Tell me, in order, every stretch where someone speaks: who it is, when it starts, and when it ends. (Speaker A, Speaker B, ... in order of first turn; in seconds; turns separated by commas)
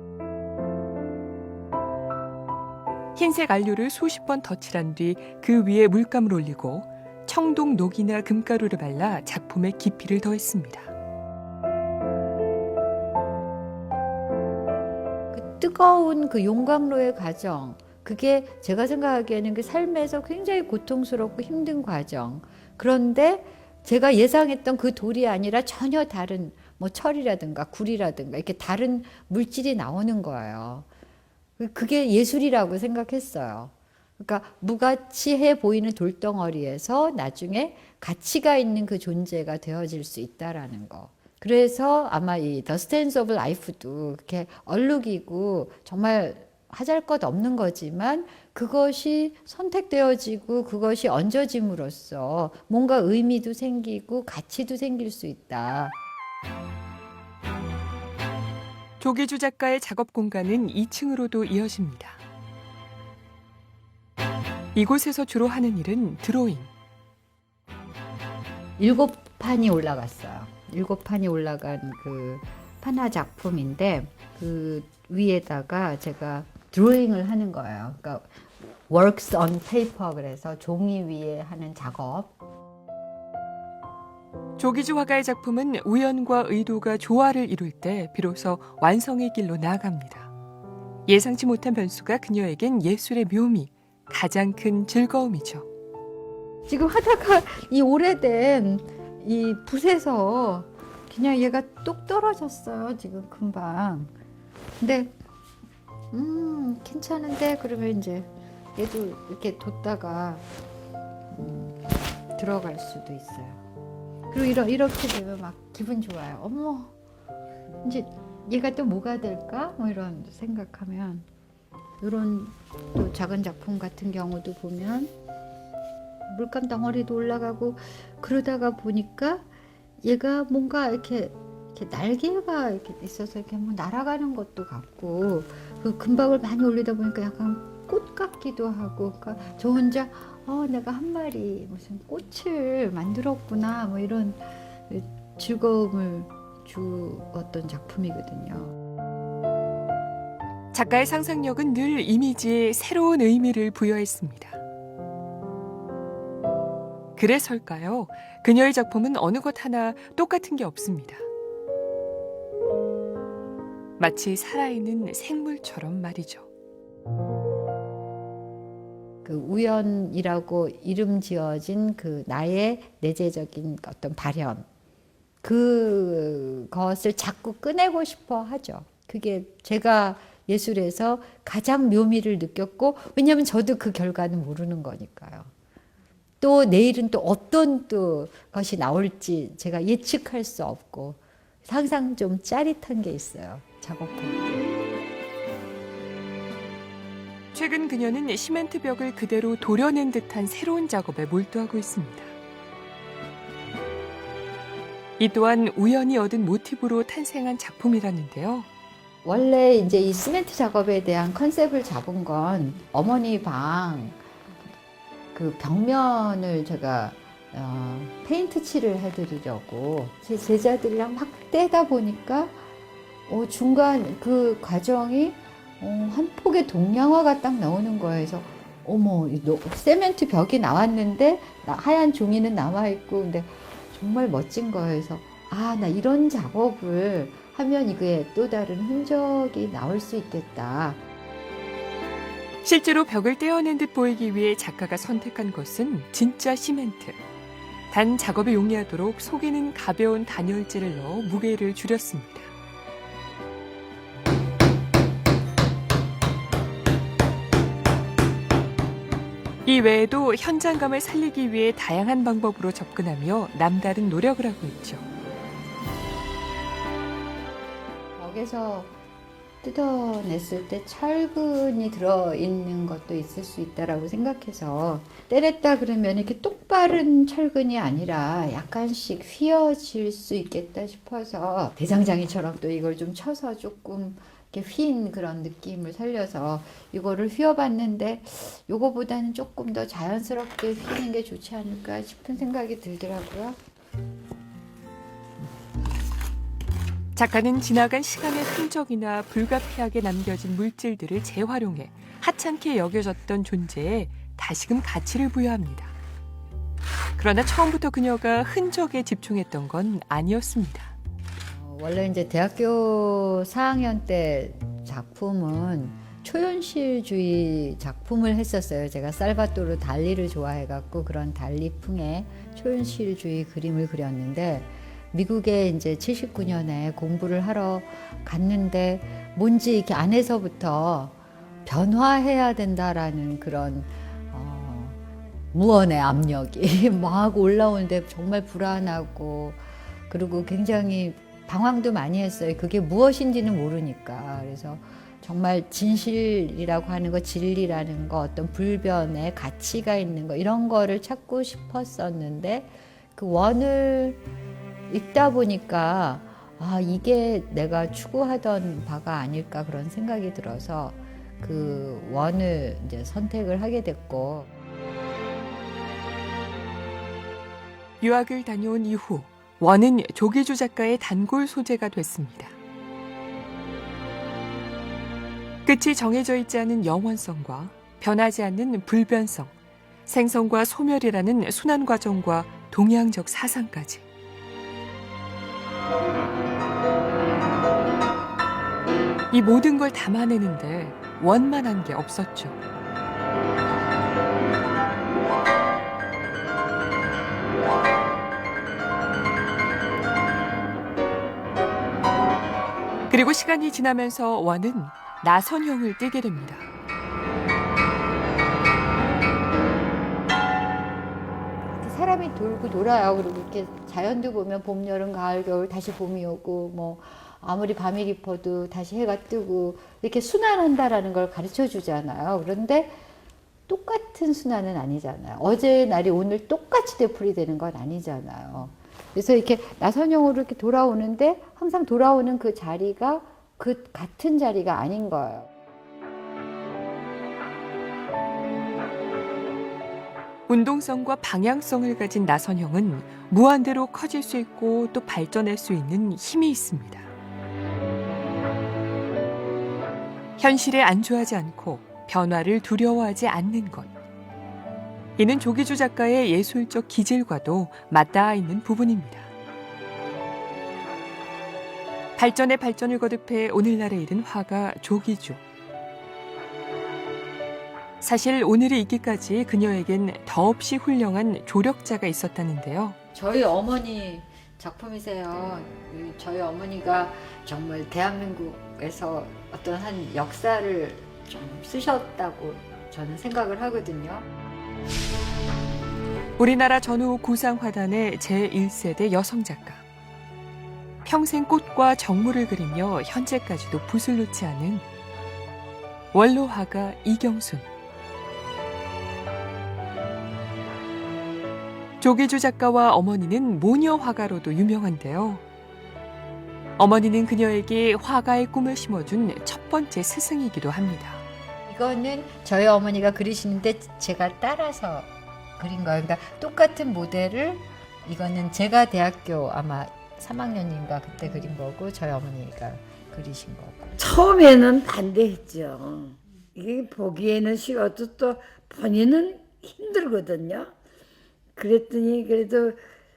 Speaker A: 3.1-10.9, Speaker B: 15.3-30.9, Speaker B: 31.6-56.0, Speaker A: 59.0-62.2, Speaker A: 64.7-66.7, Speaker B: 68.8-82.3, Speaker A: 84.6-90.3, Speaker A: 91.1-95.7, Speaker B: 96.7-104.1, Speaker B: 104.8-105.1, Speaker B: 106.1-110.5, Speaker B: 111.3-113.6, Speaker B: 114.3-116.9, Speaker B: 117.8-121.2, Speaker B: 122.0-125.1, Speaker B: 126.3-129.5, Speaker B: 130.0-148.8, Speaker A: 150.7-154.6, Speaker A: 157.2-161.2, Speaker A: 164.0-166.5, Speaker B: 169.2-174.7, Speaker B: 175.4-185.5, Speaker B: 186.4-194.6, Speaker A: 197.5-202.3, Speaker A: 205.2-208.7, Speaker B: 209.2-214.2, Speaker B: 215.3-222.7, Speaker B: 223.3-241.0, Speaker A: 242.6-247.2, Speaker A: 247.9-252.5, Speaker A: 259.6-265.0, Speaker B: 268.1-268.9, Speaker B: 269.6-293.6, Speaker A: 297.1-305.9, Speaker A: 307.2-310.9, Speaker B: 311.4-335.0, Speaker B: 335.5-354.2, Speaker B: 354.9-364.5, Speaker A: 368.0-372.5, Speaker A: 375.6-379.5, Speaker A: 380.1-384.0, Speaker A: 389.3-392.6, Speaker A: 403.1-406.7, Speaker B: 411.7-423.0, Speaker B: 423.7-435.5, Speaker A: 440.5-447.1, Speaker A: 450.4-453.9, Speaker A: 455.2-459.3, Speaker A: 462.2-465.4, Speaker A: 468.0-472.9, Speaker B: 473.1-484.3, Speaker A: 486.4-489.8, Speaker A: 491.0-494.8, Speaker A: 496.1-497.7, Speaker A: 502.0-505.4, Speaker A: 506.8-511.2, Speaker B: 511.7-524.0, Speaker C: 524.0-530.7, Speaker C: 531.5-532.8